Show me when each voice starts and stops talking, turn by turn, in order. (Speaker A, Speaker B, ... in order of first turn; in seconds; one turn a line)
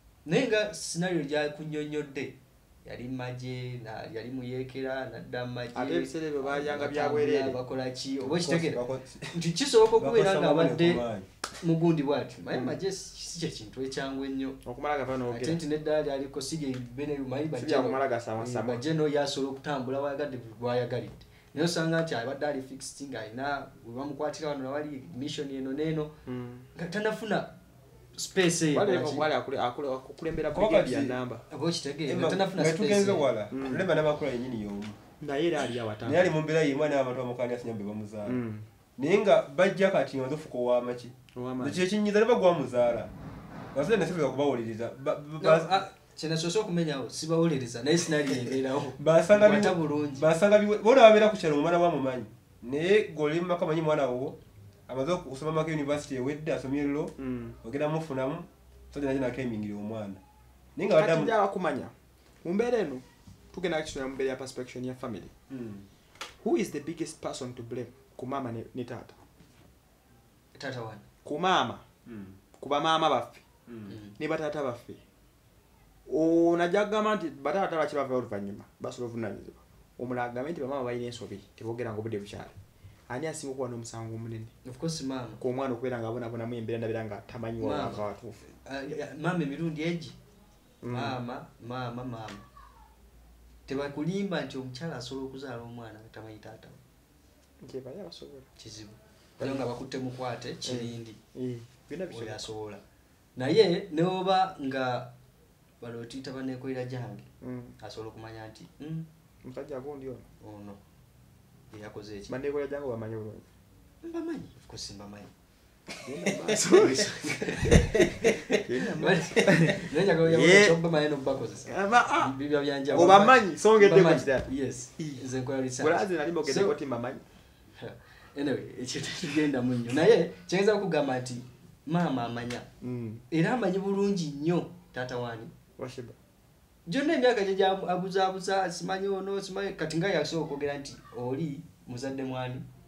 Speaker A: 0.2-14.6
Speaker B: 5.7-7.6
Speaker C: 8.2-9.3
Speaker C: 10.0-11.3
Speaker B: 12.5-12.8
Speaker B: 14.6-15.6
Speaker A: 15.3-26.1
Speaker B: 17.6-18.8
Speaker B: 26.2-26.7
Speaker A: 26.7-27.5
Speaker A: 28.1-29.3
Speaker B: 28.7-31.4
Speaker C: 30.5-31.2
Speaker A: 31.5-33.3
Speaker C: 32.1-35.0
Speaker B: 33.5-33.8
Speaker B: 35.2-36.3
Speaker C: 36.0-38.4
Speaker B: 38.2-38.6
Speaker C: 39.0-43.1
Speaker B: 41.3-41.8
Speaker C: 43.7-45.8
Speaker A: 45.4-50.3
Speaker C: 49.0-54.4
Speaker C: 54.9-60.2
Speaker B: 57.2-57.6
Speaker C: 60.8-61.3
Speaker B: 61.0-65.3
Speaker C: 65.5-65.9
Speaker B: 66.4-69.2
Speaker A: 70.5-71.0
Speaker B: 71.2-71.8
Speaker C: 72.0-72.4
Speaker B: 72.5-73.4
Speaker C: 73.7-74.0
Speaker A: 73.9-74.1
Speaker B: 74.2-75.0
Speaker B: 76.1-82.5
Speaker B: 83.1-84.5
Speaker A: 84.6-85.4
Speaker B: 85.4-88.4
Speaker A: 87.6-90.2
Speaker B: 90.8-91.2
Speaker A: 90.9-92.5
Speaker A: 93.7-96.8
Speaker B: 97.6-98.5
Speaker A: 98.6-101.2
Speaker B: 99.4-99.7
Speaker B: 100.6-102.5
Speaker A: 102.1-102.8
Speaker A: 103.3-105.1
Speaker A: 105.8-107.2
Speaker B: 107.4-107.7
Speaker A: 107.8-109.1
Speaker B: 109.4-110.3
Speaker A: 110.4-110.8
Speaker A: 111.7-112.3
Speaker B: 112.3-113.4
Speaker A: 114.0-115.3
Speaker B: 116.0-117.1
Speaker A: 116.7-126.7
Speaker B: 118.6-120.8
Speaker B: 121.6-122.3
Speaker B: 122.9-125.2
Speaker B: 125.8-127.2
Speaker A: 127.7-132.7
Speaker B: 132.8-133.2
Speaker A: 133.3-135.5
Speaker B: 135.8-136.2
Speaker A: 136.8-142.6